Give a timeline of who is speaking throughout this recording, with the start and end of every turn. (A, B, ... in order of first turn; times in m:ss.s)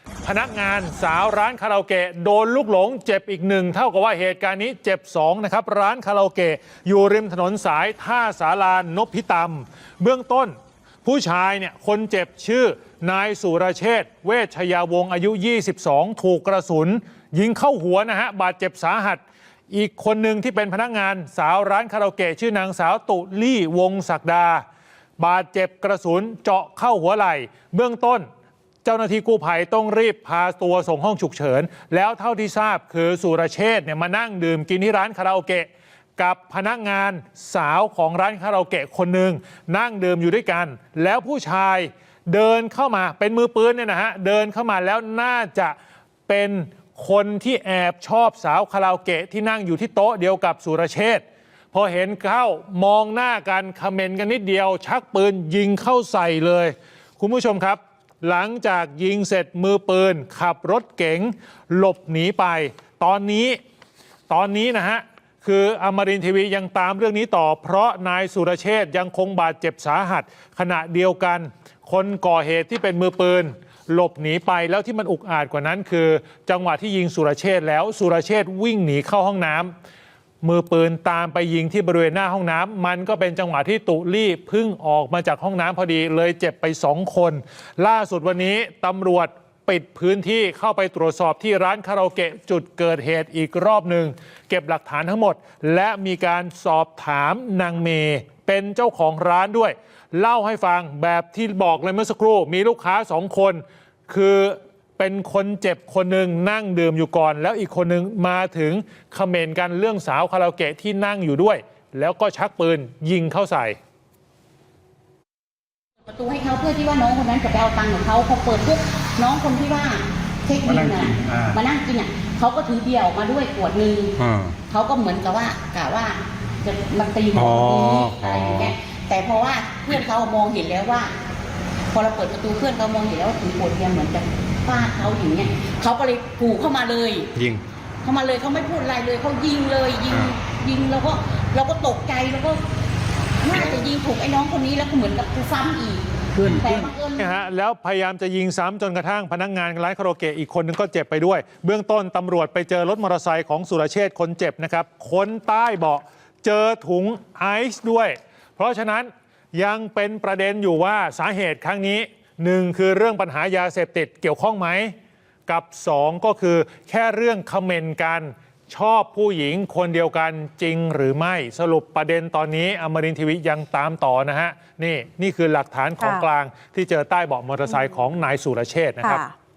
0:00.2-0:24.6 A
0:25.2-0:28.2 A
0:28.8-0:45.8 A
0:46.3-1:03.6 A
1:04.3-1:19.7 A
1:20.4-1:53.8 A
1:56.0-2:04.2 B
2:01.3-2:01.6 C
2:04.2-2:04.6 C
2:04.7-2:11.1 B
2:07.3-2:08.8 C
2:11.9-2:17.3 B
2:17.4-2:17.6 C
2:18.0-2:22.6 B
2:23.4-2:27.3 B
2:26.4-2:44.9 A
2:26.4-2:26.7 C
2:45.5-2:59.2 A